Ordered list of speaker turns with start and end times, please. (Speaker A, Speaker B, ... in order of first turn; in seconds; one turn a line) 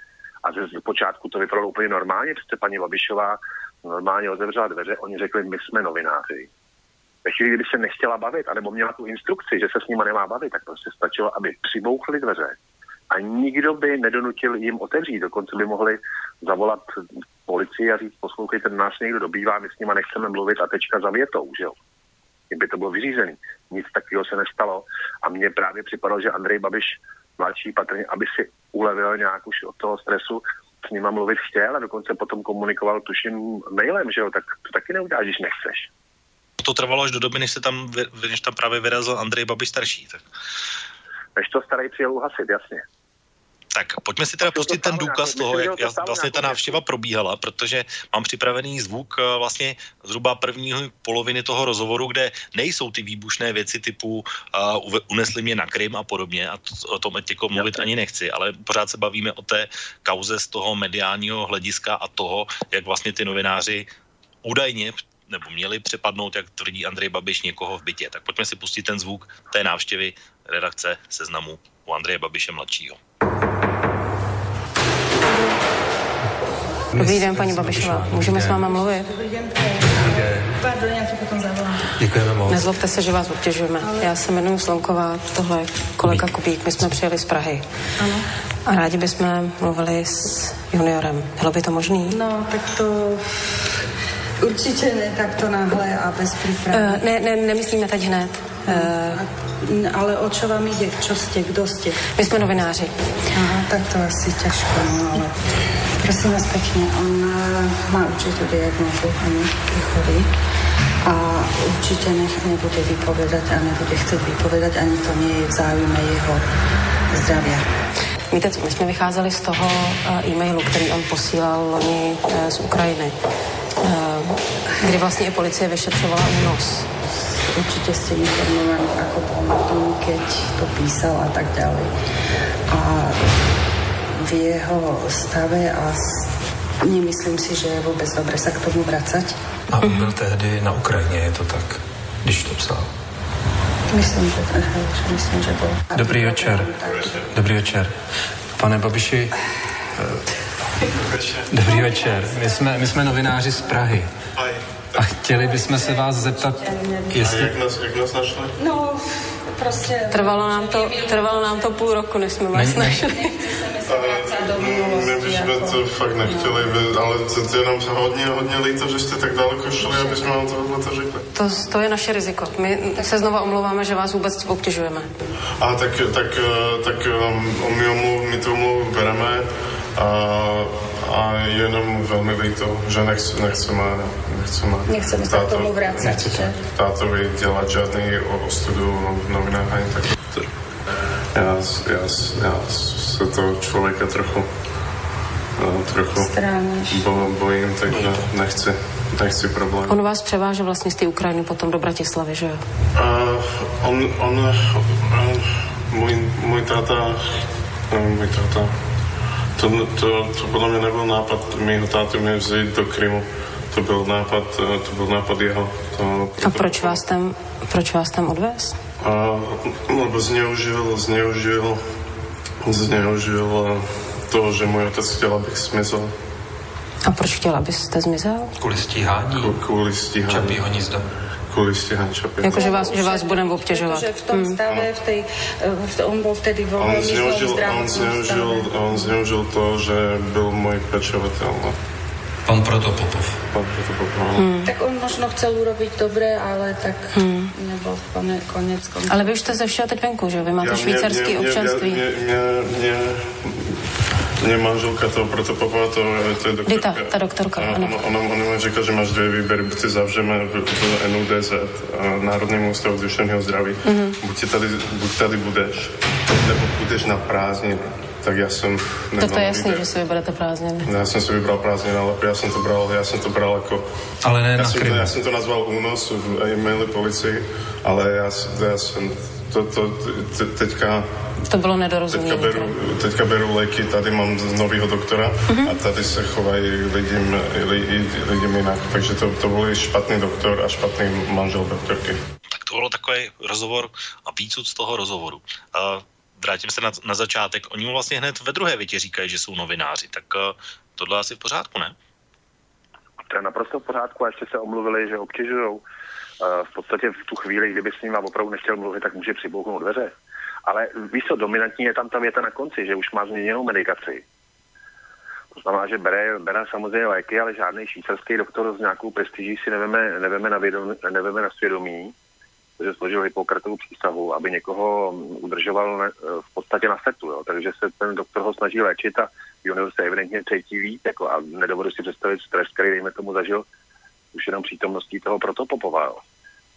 Speaker A: 0.4-6.5
Speaker A: 7.2-12.6
Speaker A: 13.1-16.9
Speaker A: 17.5-21.8
Speaker A: 22.5-35.9
Speaker B: 36.6-40.2
Speaker A: 41.4-42.8
Speaker B: 43.7-63.9
Speaker A: 44.4-46.8
Speaker A: 57.5-57.9
Speaker B: 64.4-73.0
Speaker C: 76.9-78.8
Speaker D: 77.0-79.1
Speaker E: 78.8-81.9
Speaker C: 80.2-80.6
Speaker C: 82.0-82.7
Speaker D: 82.5-87.7
Speaker E: 83.8-84.2
Speaker C: 86.0-87.0
Speaker E: 88.0-88.3
Speaker D: 88.7-92.2
Speaker E: 92.1-93.5
Speaker E: 94.4-97.2
Speaker D: 96.7-99.2
Speaker E: 98.7-102.6
Speaker D: 102.2-103.0
Speaker E: 103.3-105.4
Speaker E: 106.0-110.3
Speaker E: 111.0-116.5
Speaker E: 117.1-117.7
Speaker D: 118.3-123.2
Speaker D: 123.8-126.9
Speaker E: 127.5-131.9
Speaker E: 132.7-133.3
Speaker E: 134.2-136.3
Speaker E: 136.8-139.3
Speaker C: 139.7-142.9
Speaker D: 139.8-140.2
Speaker E: 143.9-147.2
Speaker C: 145.9-147.9
Speaker C: 148.6-149.3
Speaker C: 151.5-154.1
Speaker E: 151.6-152.9
Speaker F: 154.4-155.0
Speaker C: 155.0-156.6
Speaker E: 155.3-157.2
Speaker C: 157.1-157.6
Speaker F: 157.2-158.5
Speaker E: 158.6-161.9
Speaker D: 160.1-163.4
Speaker C: 162.5-163.1
Speaker E: 163.1-166.7
Speaker F: 163.9-171.2
Speaker E: 169.8-170.3
Speaker D: 171.3-175.1
Speaker F: 175.6-190.5
Speaker E: 184.9-186.6
Speaker F: 191.3-194.5
Speaker F: 195.6-196.3
Speaker E: 196.1-197.1
Speaker F: 196.9-200.0
Speaker D: 199.9-202.6
Speaker F: 202.9-207.4
Speaker F: 207.9-208.7
Speaker F: 209.6-217.0
Speaker D: 216.4-218.8
Speaker F: 219.0-221.8
Speaker F: 222.7-226.1
Speaker D: 227.0-228.5
Speaker C: 228.6-229.6
Speaker F: 229.3-230.7
Speaker C: 230.3-231.1
Speaker F: 231.5-232.7
Speaker D: 232.4-234.6
Speaker E: 232.4-239.2
Speaker F: 236.8-241.8
Speaker C: 242.5-243.4
Speaker F: 243.5-244.5
Speaker D: 244.4-244.7
Speaker E: 244.6-249.6
Speaker D: 247.1-247.5
Speaker D: 249.1-252.0
Speaker F: 250.6-253.5
Speaker F: 254.4-269.9
Speaker D: 256.7-258.0
Speaker D: 263.8-264.2
Speaker D: 269.2-270.9
Speaker F: 270.8-273.9
Speaker C: 274.2-275.2
Speaker F: 274.6-281.1
Speaker D: 281.5-282.8
Speaker F: 282.1-292.2
Speaker D: 285.5-285.7
Speaker B: 292.5-301.9
Speaker A: 303.3-305.8
Speaker A: 306.4-310.1
Speaker A: 310.7-314.2
Speaker A: 315.6-322.1
Speaker A: 322.8-333.7
Speaker A: 334.3-336.2